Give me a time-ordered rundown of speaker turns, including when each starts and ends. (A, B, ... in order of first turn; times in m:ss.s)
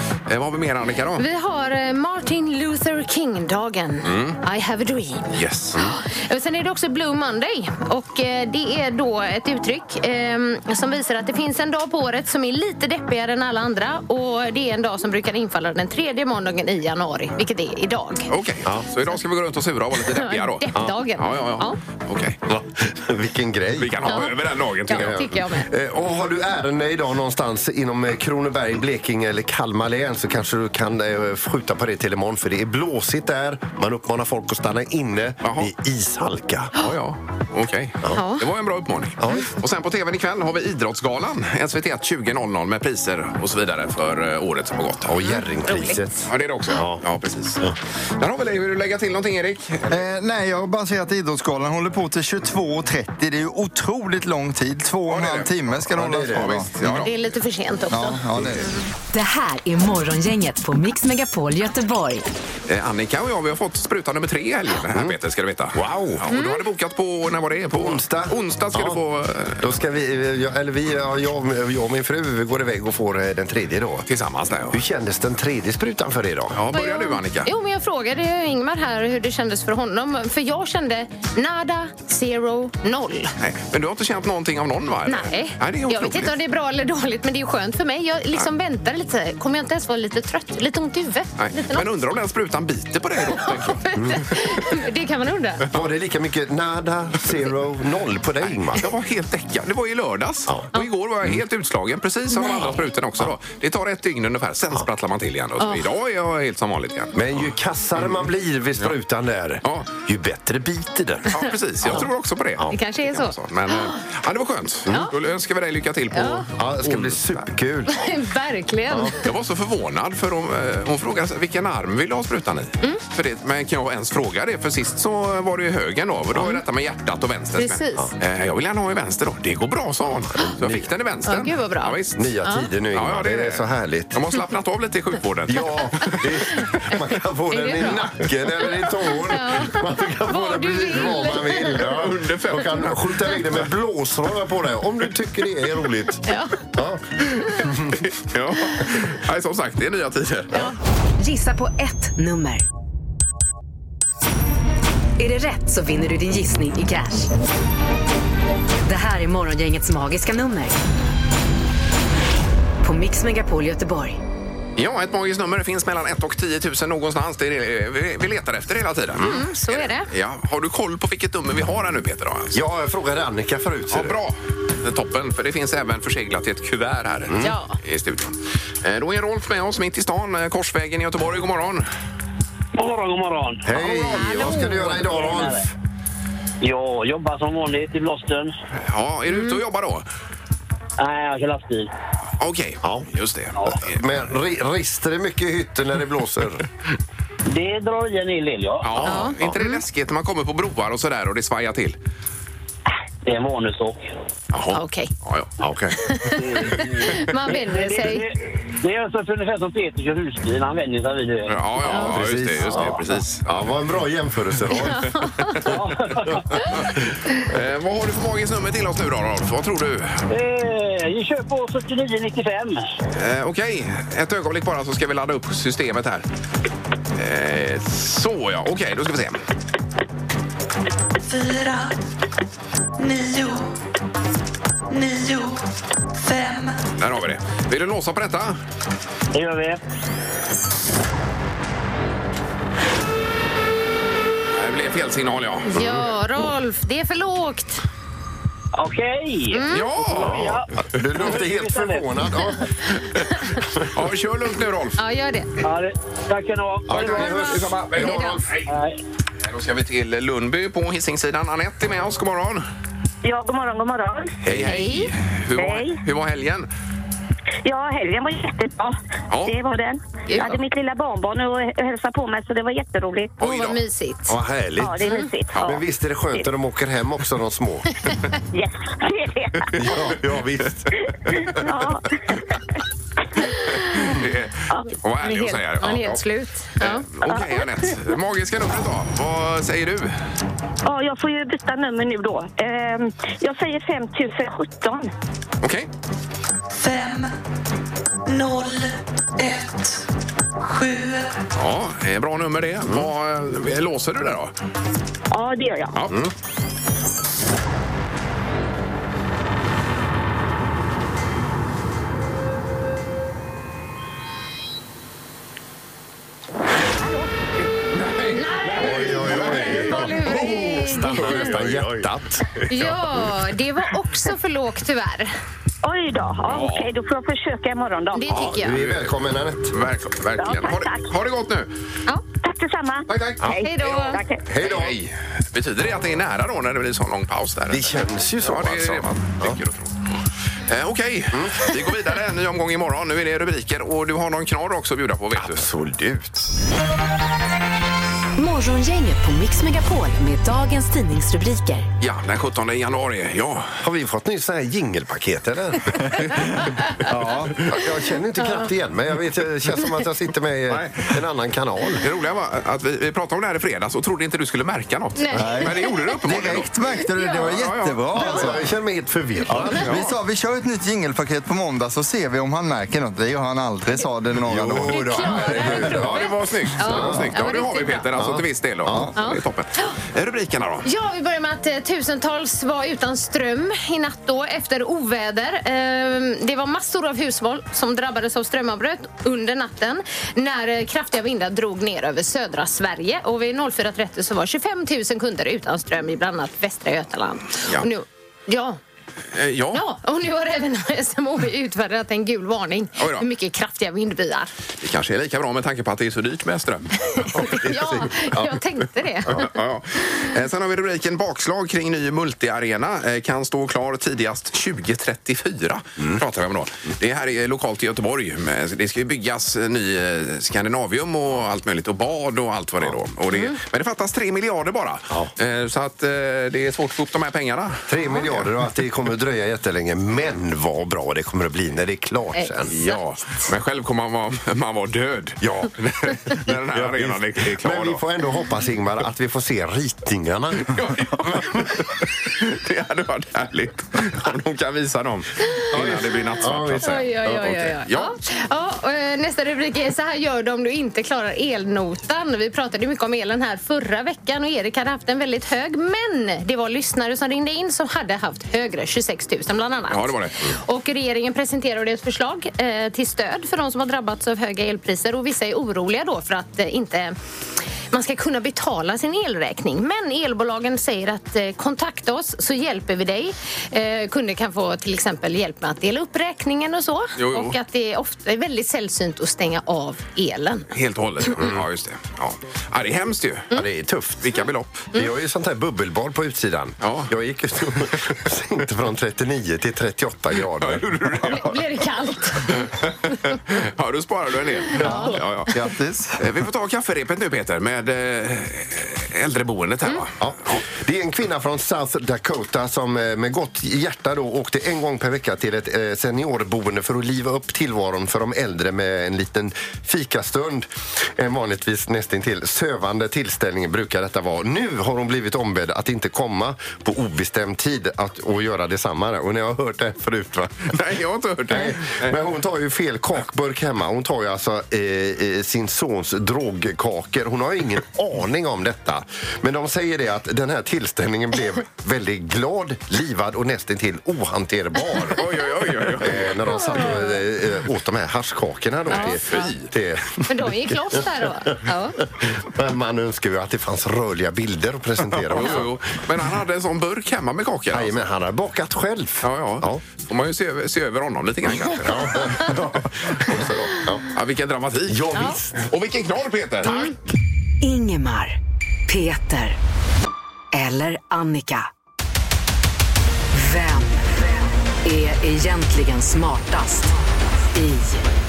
0:00.3-0:01.2 A
0:01.2-0:18.3 B
0:04.0-0:04.4 A
0:05.3-0:05.8 A
0:18.3-0:22.4 A
0:20.1-0:21.8 B
0:22.5-0:36.7 C
0:23.8-0:25.2 A
0:24.0-0:25.7 B
0:35.4-0:35.7 A
0:36.8-0:45.1 A
0:38.1-0:38.4 B
0:39.2-0:39.5 C
0:45.0-0:47.0 C
0:45.2-0:45.9 B
0:46.3-0:47.6 A
0:48.2-0:50.0 A
0:49.9-0:57.1 D
0:55.1-0:55.6 A
0:55.9-0:56.6 C
0:56.3-0:57.1 A
0:57.0-0:58.7 B
0:57.9-0:58.7 D
0:59.1-1:02.2 E
1:02.7-1:09.7 A
1:04.9-1:05.2 C
1:05.7-1:06.2 C
1:06.3-1:06.6 B
1:07.7-1:09.0 C
1:09.6-1:14.1 C
1:14.1-1:14.8 A
1:14.7-1:16.6 C
1:16.5-1:17.5 A
1:16.7-1:23.3 B
1:23.4-1:26.3 A
1:25.1-1:31.9 B
1:31.4-1:33.8 A
1:33.3-1:35.6 B
1:33.9-1:34.4 C
1:35.7-1:38.9 C
1:38.4-1:48.3 A
1:42.3-1:42.8 B
1:47.1-1:52.7 C
1:49.6-1:49.9 A
1:51.3-1:57.4 A
1:52.7-1:54.0 B
1:54.9-1:55.1 B
1:56.1-1:56.5 B
1:56.6-1:58.1 C
1:57.9-1:59.2 B
1:58.9-1:59.1 C
1:59.2-2:12.2 A
2:06.4-2:06.6 B
2:07.5-2:08.1 B
2:10.4-2:10.9 C
2:11.2-2:12.7 B
2:12.2-2:14.1 C
2:12.9-2:16.2 A
2:15.5-2:26.2 C
2:16.1-2:16.7 B
2:17.5-2:18.1 B
2:19.3-2:21.9 B
2:21.8-2:23.6 A
2:26.2-2:26.7 B
2:26.7-2:28.0 C
2:27.3-2:27.6 B
2:27.9-2:30.7 A
2:31.2-2:32.6 E
2:35.2-2:37.3 E
2:38.8-2:40.8 E
2:42.8-2:44.2 E
2:44.8-2:52.6 A
2:49.2-2:49.4 C
2:49.2-2:50.1 B
2:52.5-2:54.2 C
2:53.9-3:01.8 A
2:57.3-2:57.5 C
2:57.4-2:57.8 B
3:02.7-3:05.6 F
3:03.6-3:05.7 C
3:03.7-3:05.0 B
3:06.6-3:08.5 F
3:08.8-3:10.0 A
3:09.3-3:09.6 B
3:11.0-3:11.9 F
3:12.4-3:14.0 A
3:13.7-3:16.6 C
3:17.5-3:18.9 F
3:18.8-3:22.0 A
3:19.0-3:19.6 C
3:19.0-3:19.8 B
3:23.2-3:24.0 F
3:24.5-3:25.6 A
3:24.7-3:25.1 B
3:25.6-3:26.0 C
3:26.0-3:28.2 B
3:26.4-3:31.5 F
3:31.5-3:33.4 A
3:31.8-3:32.2 B
3:31.9-3:35.2 C
3:34.7-3:35.6 B
3:35.4-3:35.7 A
3:35.7-3:36.4 F
3:36.2-3:37.0 C
3:36.7-3:40.2 A
3:40.3-3:42.8 F
3:43.1-3:46.2 A
3:47.2-3:49.4 A
3:51.2-3:51.9 G
3:53.0-3:53.7 G
3:54.9-3:55.6 G
3:56.1-3:56.8 G
3:57.0-3:58.6 A
3:59.3-3:59.8 F
4:04.5-4:05.7 A
4:05.7-4:07.8 B
4:05.7-4:06.1 C
4:08.7-4:12.1 F
4:09.5-4:09.9 B
4:09.7-4:10.6 A
4:10.2-4:12.7 C
4:13.8-4:15.0 A
4:15.0-4:15.5 B
4:15.6-4:17.5 F
4:16.9-4:18.5 C
4:16.9-4:18.7 A
4:17.0-4:18.4 B
4:18.6-4:19.0 F
4:19.4-4:22.6 A
4:23.2-4:24.4 H
4:24.4-4:24.7 C
4:24.4-4:26.7 A
4:24.5-4:25.1 B
4:25.5-4:26.0 H
4:27.6-4:33.3 H
4:29.3-4:29.6 A
4:30.3-4:30.6 B
4:33.4-4:33.8 A
4:33.4-4:34.4 B
4:34.3-4:35.1 C
4:34.8-4:36.5 H
4:35.0-4:35.3 B
4:35.5-4:35.8 A
4:35.6-4:38.0 C
4:38.5-4:39.8 H
4:39.7-4:41.4 C
4:41.3-4:42.2 H
4:43.4-4:44.0 B
4:43.9-4:46.2 A
4:45.2-4:47.1 B
4:46.8-4:50.1 A
4:47.2-4:47.9 H
4:50.8-4:55.1 H
4:55.6-4:55.9 A
4:56.7-4:57.3 G
4:58.3-5:00.0 G
5:00.6-5:01.4 G
5:01.5-5:04.5 A
5:05.3-5:06.0 H
5:05.9-5:06.2 A
5:18.3-5:21.5 B
5:18.7-5:23.0 C
5:20.2-5:21.8 A
5:22.7-5:25.3 B
5:25.8-5:28.4 H
5:26.4-5:26.9 A
5:28.1-5:28.8 B
5:28.3-5:29.2 A
5:28.5-5:29.7 C
5:29.7-5:31.7 A
5:30.4-5:31.1 H
5:32.4-5:34.4 H
5:33.1-5:40.0 A
5:33.6-5:34.2 B
5:34.4-5:35.0 C
5:37.7-5:39.6 C
5:40.7-5:45.7 A
5:41.3-5:41.8 C
5:45.4-5:46.5 C
5:48.4-5:51.9 E
5:52.0-5:53.8 A
5:53.8-6:02.0 C
5:57.0-5:57.6 D
5:58.4-5:58.7 B
6:00.7-6:01.1 A
6:02.0-6:06.7 A
6:05.2-6:06.1 B
6:05.4-6:08.6 D
6:07.0-6:07.6 B
6:07.3-6:08.0 A
6:08.1-6:10.0 C
6:08.2-6:08.5 B
6:09.5-6:15.8 D
6:09.6-6:10.1 A
6:14.4-6:17.3 C
6:14.7-6:18.1 B
6:15.5-6:20.9 A
6:18.1-6:19.1 C
6:19.2-6:19.9 B
6:20.8-6:38.8 B
6:39.3-6:39.8 A
6:39.7-6:44.5 B
6:43.0-6:43.2 A
6:44.8-6:47.2 A
6:47.1-6:49.4 B
6:47.3-6:48.6 C
6:49.3-7:08.4 A
7:03.3-7:03.6 B
7:07.9-7:12.7 C
7:12.3-7:13.0 B
7:12.7-7:18.0 A
7:15.4-7:20.8 C
7:20.6-7:28.1 A
7:21.3-7:21.6 C
7:25.7-7:27.6 C
7:26.8-7:47.2 B
7:39.9-7:40.5 A
7:47.9-8:00.7 B
7:57.2-7:57.6 A
8:00.7-8:03.5 A
8:01.4-8:01.6 C
8:03.5-8:04.3 C
8:04.2-8:04.9 A
8:04.9-8:11.4 C
8:06.8-8:07.1 A
8:10.4-8:11.5 A
8:11.2-8:12.6 B
8:12.4-8:15.6 A
8:14.8-8:15.2 C
8:14.8-8:15.2 B
8:15.5-8:16.2 D
8:16.2-8:20.2 A
8:20.2-8:40.8 C
8:40.7-8:42.2 A
8:41.5-8:55.3 C
8:55.1-8:56.6 A
8:55.9-9:01.5 C
8:56.6-8:57.2 B
8:58.9-8:59.7 A
8:58.9-8:59.5 B
9:00.3-9:02.0 B
9:02.0-9:05.7 C
9:05.2-9:08.0 A
9:07.7-9:09.8 C
9:09.2-9:13.6 A
9:11.4-9:14.1 C
9:14.1-9:16.8 A
9:14.9-9:15.6 C
9:16.6-9:16.9 B
9:17.6-9:19.6 E
9:20.5-9:21.7 E
9:23.3-9:24.2 E
9:24.8-9:26.9 E
9:27.5-9:28.0 E